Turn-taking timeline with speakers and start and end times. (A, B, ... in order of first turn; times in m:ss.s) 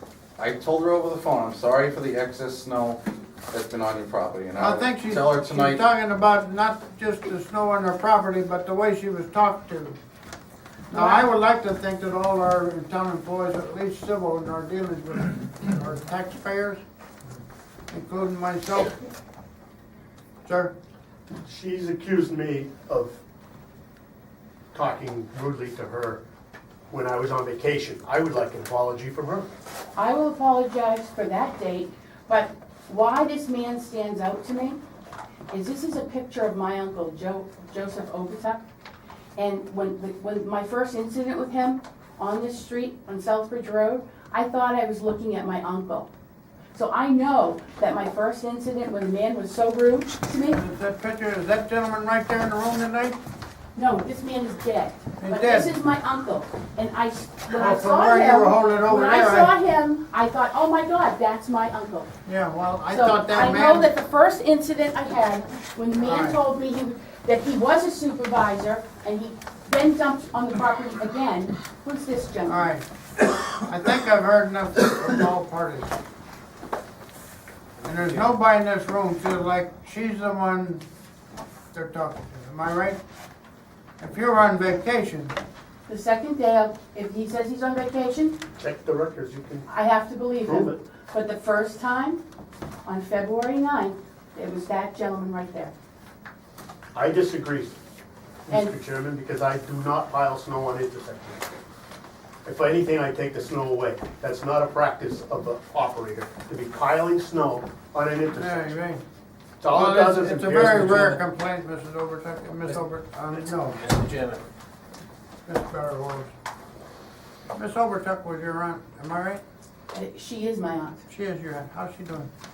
0:00.4-0:05.8 A
0:04.6-0:10.0 B
0:10.9-0:11.2 C
0:10.9-0:16.8 B
0:17.9-0:18.9 B
0:20.4-0:20.7 B
0:21.4-0:23.2 D
0:24.7-0:26.2 D
0:26.9-0:29.5 D
0:30.0-0:34.8 C
0:35.5-0:38.6 C
0:39.4-0:46.1 C
0:46.7-0:50.6 C
0:50.5-0:53.2 B
0:53.8-1:02.1 C
0:55.2-0:55.8 B
0:57.5-0:59.5 B
1:02.2-1:03.9 B
1:02.9-1:12.7 C
1:06.0-1:06.4 B
1:12.4-1:12.8 B
1:13.5-1:16.0 B
1:17.8-1:20.8 B
1:21.7-1:23.0 B
1:24.0-1:25.3 B
1:25.9-1:28.4 C
1:28.6-1:29.7 D
1:29.7-1:32.2 C
1:30.4-1:30.8 D
1:32.8-1:35.7 C
1:36.9-1:37.8 D
1:38.4-1:41.5 D
1:38.5-1:38.7 C
1:42.4-1:48.8 D
1:48.3-1:49.0 B
1:49.6-1:51.2 D
1:49.7-1:53.8 B
1:53.8-1:54.4 D
1:55.4-1:56.3 B
1:57.5-1:59.4 B
1:59.9-2:01.0 C
2:01.1-2:02.3 B